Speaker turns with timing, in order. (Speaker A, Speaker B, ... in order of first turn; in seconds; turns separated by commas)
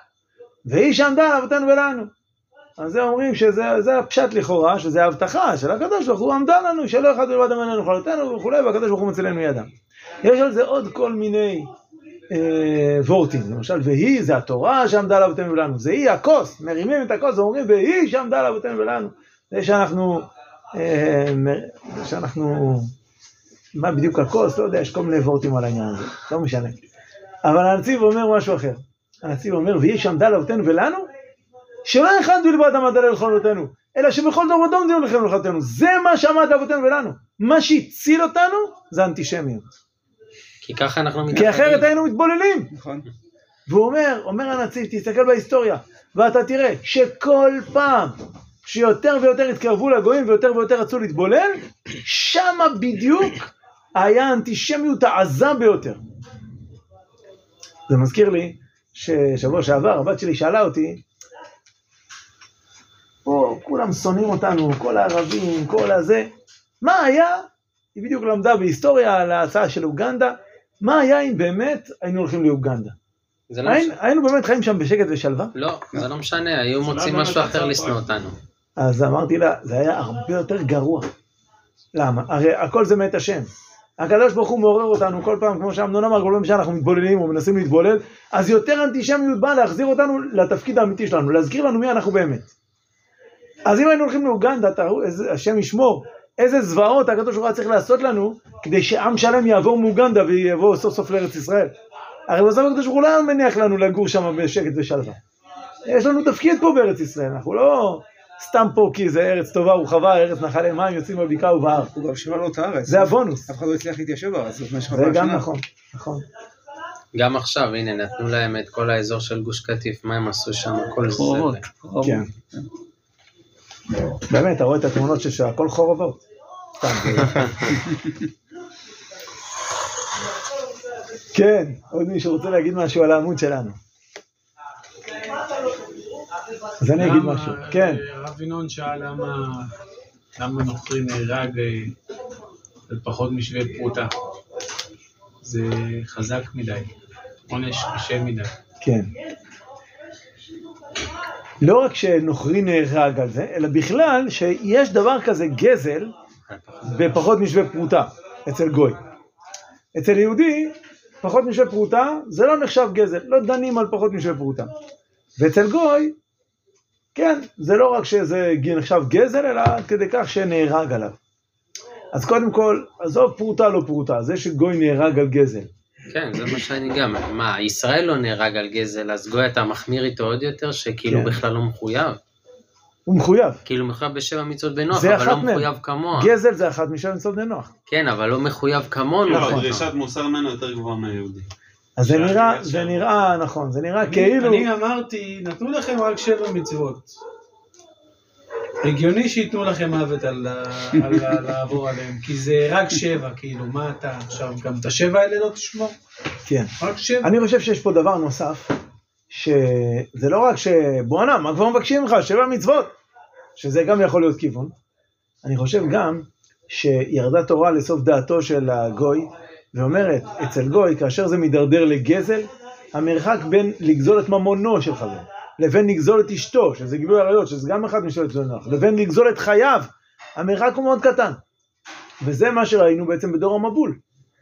Speaker A: 0.6-2.1, Speaker A: 2.8-9.7, Speaker A: 10.2-11.7, Speaker A: 12.3-22.9, Speaker A: 23.7-26.8, Speaker A: 27.4-31.1, Speaker A: 31.8-39.7, Speaker B: 40.6-41.9, Speaker A: 41.3-42.7, Speaker C: 42.7-43.0, Speaker A: 43.7-56.0, Speaker A: 57.9-61.0, Speaker A: 63.2-66.3, Speaker A: 66.8-72.9, Speaker B: 73.5-74.0, Speaker A: 73.6-75.5, Speaker B: 75.5-78.3, Speaker D: 76.8-78.0, Speaker A: 78.8-81.1, Speaker A: 81.9-92.5, Speaker A: 93.7-101.7, Speaker A: 102.3-105.2, Speaker A: 105.9-111.9, Speaker C: 111.9-115.5, Speaker A: 112.9-113.5, Speaker A: 114.9-116.2, Speaker B: 117.1-121.6, Speaker C: 121.1-122.7, Speaker A: 122.0-122.2, Speaker A: 124.3-126.2, Speaker A: 126.8-127.5, Speaker A: 131.3-133.8, Speaker A: 136.8-138.0, Speaker E: 137.0-139.7, Speaker E: 140.4-141.9, Speaker E: 142.9-144.1, Speaker E: 145.4-146.8, Speaker E: 147.5-148.5, Speaker A: 148.8-149.1, Speaker A: 151.6-156.1, Speaker B: 156.5-157.3, Speaker A: 156.8-159.0, Speaker A: 159.9-164.7, Speaker A: 165.4-166.1, Speaker A: 167.1-171.2, Speaker A: 172.1-175.7, Speaker B: 176.1-182.2, Speaker A: 181.1-181.4, Speaker A: 183.1-183.6, Speaker B: 183.6-186.3, Speaker A: 184.9-187.7, Speaker B: 187.9-189.8, Speaker D: 189.2-191.5, Speaker A: 189.3-189.6, Speaker A: 192.0-194.7, Speaker D: 192.0-193.1, Speaker E: 194.0-197.1, Speaker E: 198.8-205.9, Speaker A: 206.5-208.7, Speaker E: 206.8-207.3, Speaker A: 209.3-212.9, Speaker A: 213.6-214.7, Speaker A: 215.4-231.4, Speaker A: 232.2-234.0